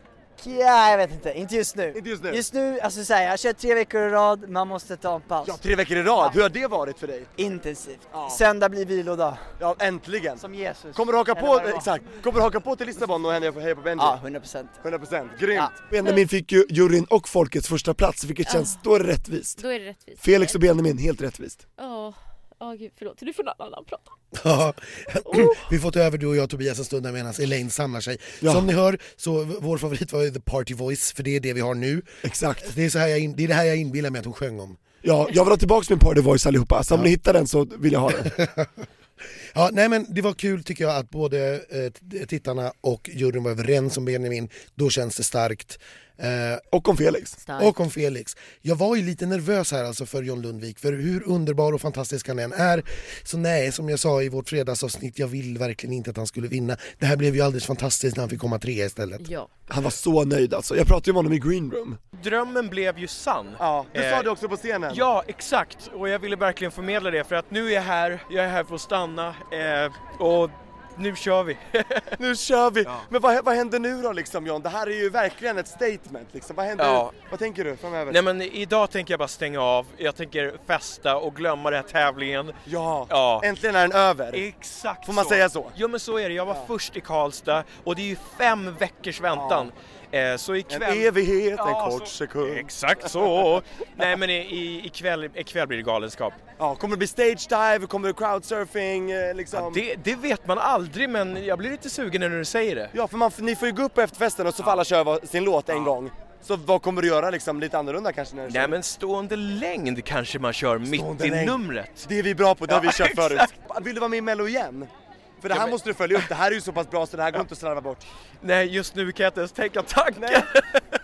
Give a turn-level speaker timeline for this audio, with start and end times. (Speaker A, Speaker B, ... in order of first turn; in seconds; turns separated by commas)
Speaker A: 0.4-5.6, Speaker B: 1.9-2.4, Speaker B: 5.4-7.3, Speaker A: 7.4-9.4, Speaker B: 8.1-8.4, Speaker B: 9.6-14.2, Speaker A: 10.4-11.9, Speaker A: 14.0-14.8, Speaker B: 14.8-15.8, Speaker C: 15.9-19.6, Speaker D: 18.5-18.8, Speaker D: 19.6-20.6, Speaker C: 20.2-21.6, Speaker D: 21.8-24.1, Speaker E: 24.3-34.9, Speaker D: 25.2-25.6, Speaker C: 28.4-28.7, Speaker C: 32.2-32.7, Speaker C: 35.0-38.3, Speaker E: 38.2-38.7, Speaker E: 39.5-46.6, Speaker C: 46.7-47.4, Speaker D: 47.4-47.8, Speaker E: 47.6-59.3, Speaker D: 59.2-59.5, Speaker C: 59.7-62.0, Speaker F: 62.2-64.3, Speaker B: 63.6-65.1, Speaker F: 64.9-72.1, Speaker B: 72.2-78.2, Speaker F: 76.8-77.2, Speaker F: 78.1-82.6, Speaker B: 82.7-84.5, Speaker F: 83.1-83.5, Speaker F: 84.3-96.4, Speaker B: 85.0-85.8, Speaker B: 89.3-89.7, Speaker B: 90.7-92.7, Speaker B: 96.6-99.8, Speaker F: 99.5-102.9, Speaker B: 102.9-108.8, Speaker F: 108.5-112.1, Speaker B: 110.9-114.9, Speaker F: 112.7-113.5, Speaker B: 115.4-118.1, Speaker F: 115.5-116.3, Speaker F: 118.4-120.8, Speaker B: 120.2-120.5